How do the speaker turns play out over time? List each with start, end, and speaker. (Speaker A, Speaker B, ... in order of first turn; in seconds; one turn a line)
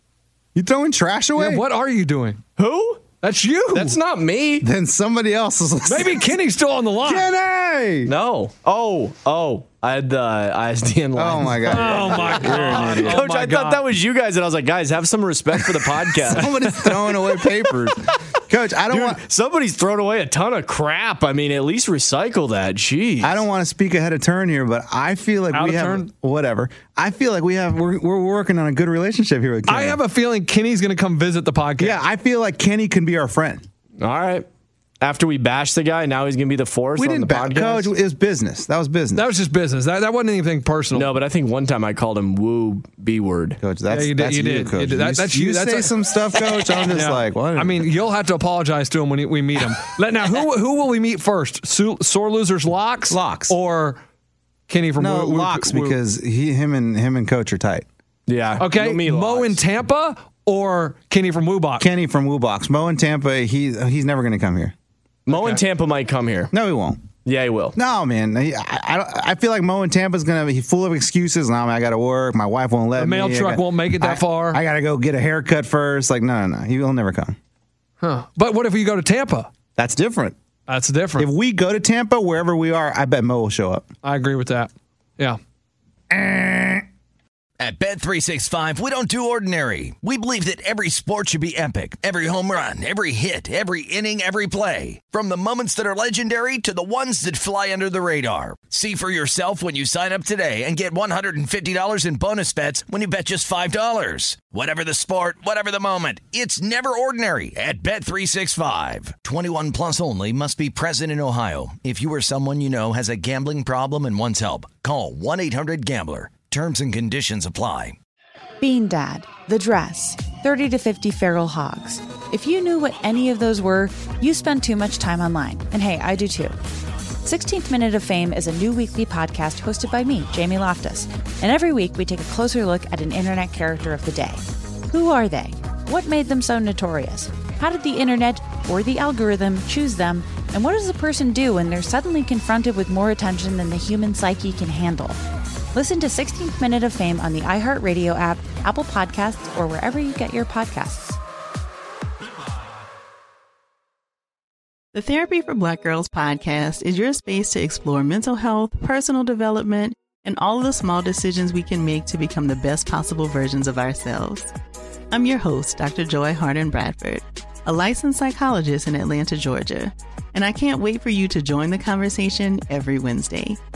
Speaker A: 0.5-1.6
Speaker B: 1.4-2.4
Speaker C: 2.6-3.0
Speaker B: 3.2-4.0
Speaker C: 3.7-4.7
Speaker A: 4.6-6.3
Speaker B: 5.9-7.3
Speaker A: 7.0-8.1
Speaker C: 8.1-16.5
Speaker A: 11.1-13.2
Speaker B: 11.7-13.8
Speaker A: 15.6-19.2
Speaker B: 16.4-17.7
Speaker C: 18.9-23.4
Speaker A: 23.2-30.0
Speaker B: 25.5-26.1
Speaker B: 29.7-32.0
Speaker A: 31.8-33.6
Speaker C: 34.0-34.5
Speaker C: 35.0-37.9
Speaker A: 37.0-39.3
Speaker B: 39.1-41.1
Speaker C: 40.9-43.6
Speaker A: 43.6-47.9
Speaker B: 43.9-45.9
Speaker B: 46.9-54.0
Speaker A: 53.1-53.5
Speaker B: 54.7-56.0
Speaker A: 55.0-57.9
Speaker C: 58.3-59.6
Speaker B: 58.6-61.9
Speaker A: 61.8-64.7
Speaker C: 65.3-66.5
Speaker B: 65.3-65.6
Speaker A: 66.5-67.0
Speaker C: 67.2-67.8
Speaker A: 67.7-77.3
Speaker B: 73.0-74.6
Speaker B: 78.0-79.5
Speaker A: 79.8-80.4
Speaker B: 80.7-81.3
Speaker A: 81.2-83.9
Speaker B: 84.0-85.4
Speaker A: 86.1-86.8
Speaker D: 87.6-118.0
Speaker E: 118.6-126.5
Speaker E: 127.2-145.2
Speaker E: 145.7-151.2
Speaker F: 154.9-164.5
Speaker F: 165.1-173.6